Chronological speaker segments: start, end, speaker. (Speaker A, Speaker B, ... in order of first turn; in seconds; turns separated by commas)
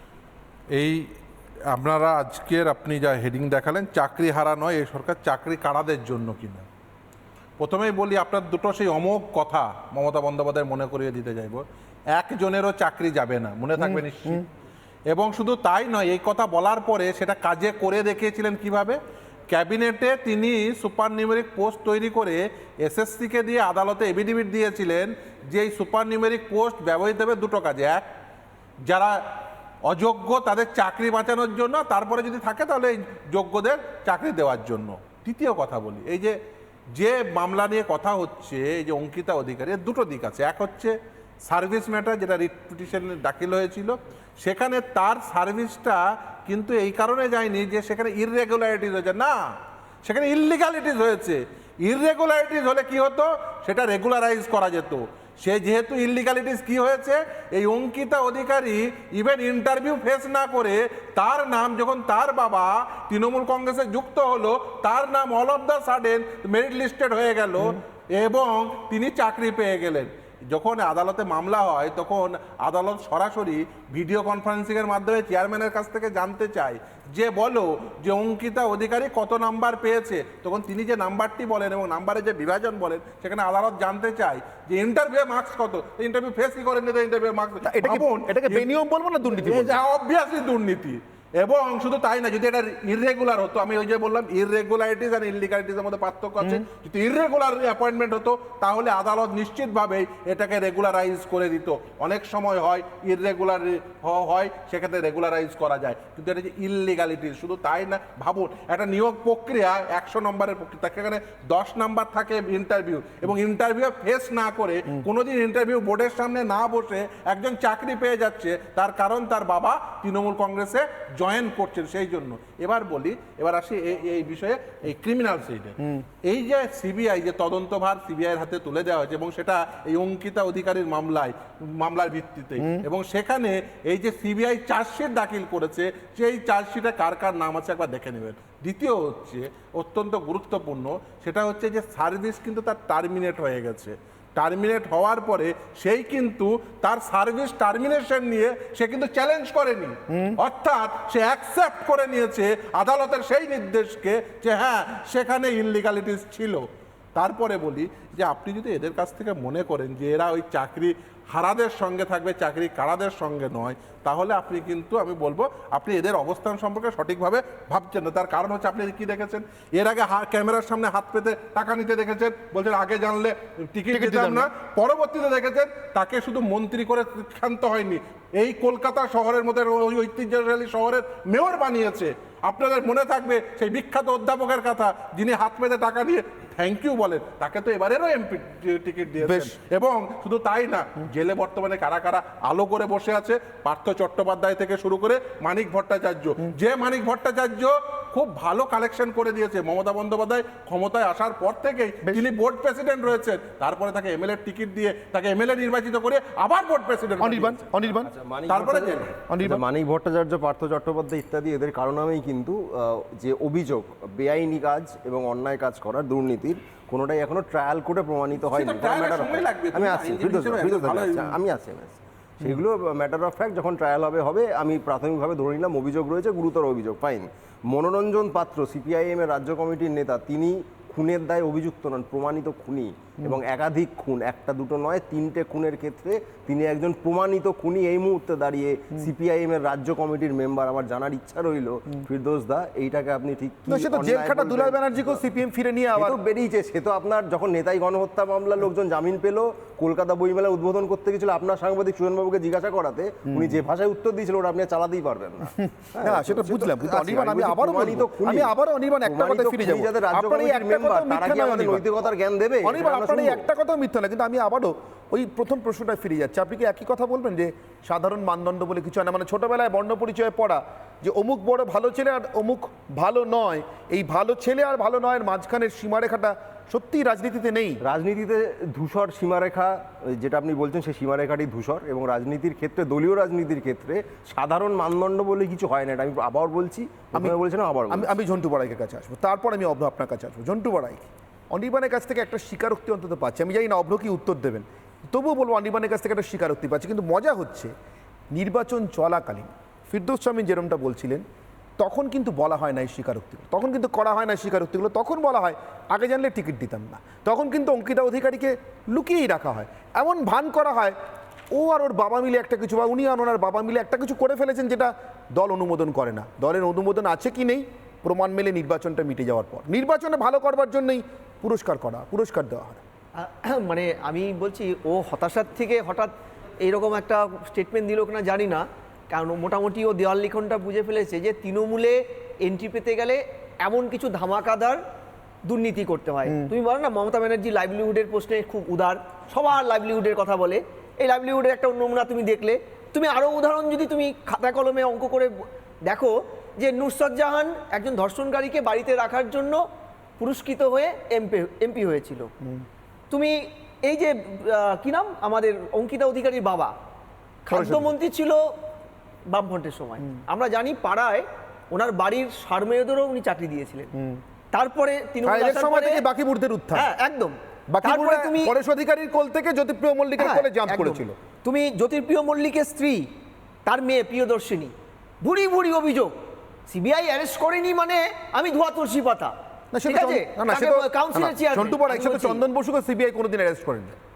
Speaker A: 0.7-1.1, Speaker A: 1.7-6.7, Speaker A: 7.6-14.4, Speaker A: 15.1-19.0, Speaker A: 19.5-28.1, Speaker A: 28.9-36.4, Speaker A: 36.9-40.9, Speaker A: 41.5-49.3, Speaker A: 50.0-88.7, Speaker B: 87.6-89.8, Speaker A: 89.2-207.7, Speaker B: 150.1-150.4, Speaker B: 173.9-174.5, Speaker B: 189.2-189.5, Speaker B: 207.2-208.1, Speaker C: 207.9-245.2, Speaker A: 208.5-209.2, Speaker B: 209.3-209.6, Speaker A: 218.4-221.4, Speaker B: 243.7-246.2, Speaker C: 245.9-258.5, Speaker B: 253.3-253.6, Speaker B: 255.6-261.9, Speaker C: 259.1-263.4, Speaker B: 262.6-277.8, Speaker C: 277.8-288.1, Speaker B: 287.9-297.7, Speaker B: 298.3-301.2, Speaker B: 301.8-310.9, Speaker B: 311.5-322.8, Speaker D: 323.1-326.1, Speaker D: 326.6-334.8, Speaker D: 335.4-349.6, Speaker D: 350.2-352.3, Speaker D: 353.1-356.7, Speaker D: 357.4-358.5, Speaker B: 357.5-357.9, Speaker D: 359.3-363.9, Speaker B: 363.9-364.2, Speaker D: 364.5-366.0, Speaker B: 365.2-366.9, Speaker D: 366.7-368.5, Speaker B: 367.7-371.1, Speaker D: 370.2-373.1, Speaker D: 373.6-376.1, Speaker D: 376.7-379.3, Speaker B: 379.7-383.9, Speaker D: 379.9-382.4